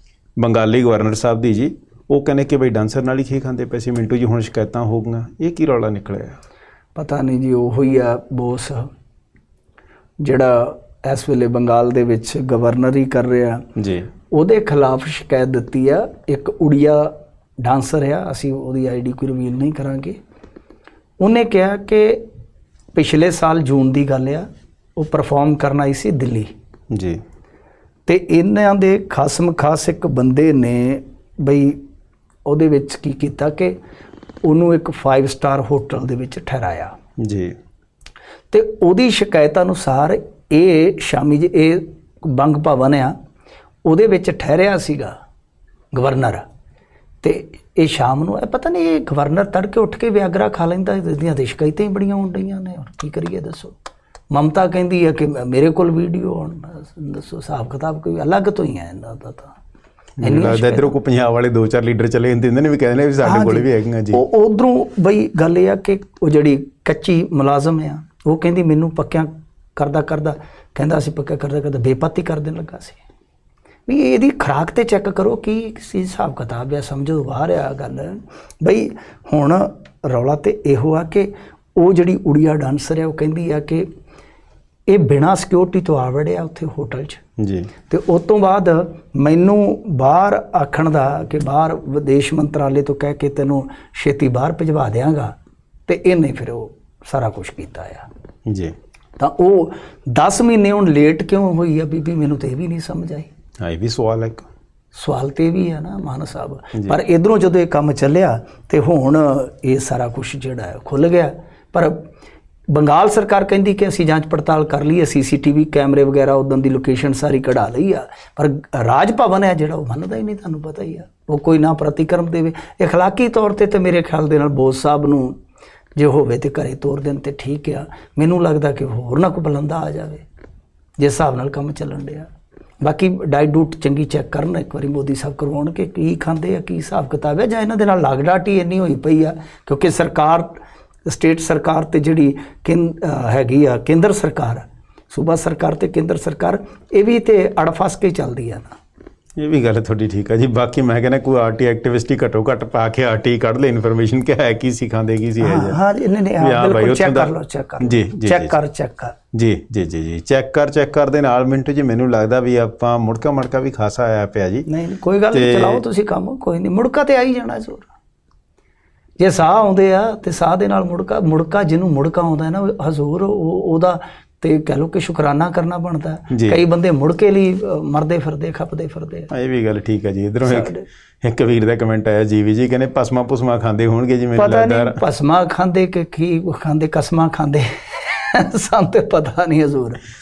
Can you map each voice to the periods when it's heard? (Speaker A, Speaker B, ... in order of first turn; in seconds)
Speaker A: 0.4-6.4, 13.8-14.1, 26.9-27.2, 37.2-37.6, 60.2-64.2, 87.4-87.7, 98.5-98.7, 103.6-104.5, 149.4-155.8, 156.4-158.5, 159.3-164.7, 165.3-165.8, 176.3-176.6, 179.3-185.0
Speaker B: 7.0-8.9, 10.2-13.7, 14.3-20.2, 21.2-22.2, 22.9-26.5, 28.1-31.8, 32.5-33.8, 34.4-37.0, 38.5-43.1, 43.9-45.1, 45.9-46.4, 47.2-53.8, 54.3-59.6, 60.2-60.9, 63.2-73.0, 73.9-83.9, 84.9-87.2, 87.9-95.3, 95.9-98.1, 99.2-103.3, 105.0-112.1, 112.7-125.4, 126.0-130.3, 131.0-132.3, 132.8-140.5, 141.1-148.8, 155.4-159.2, 164.7-167.9, 169.2-179.3, 180.4-180.8, 184.4-190.0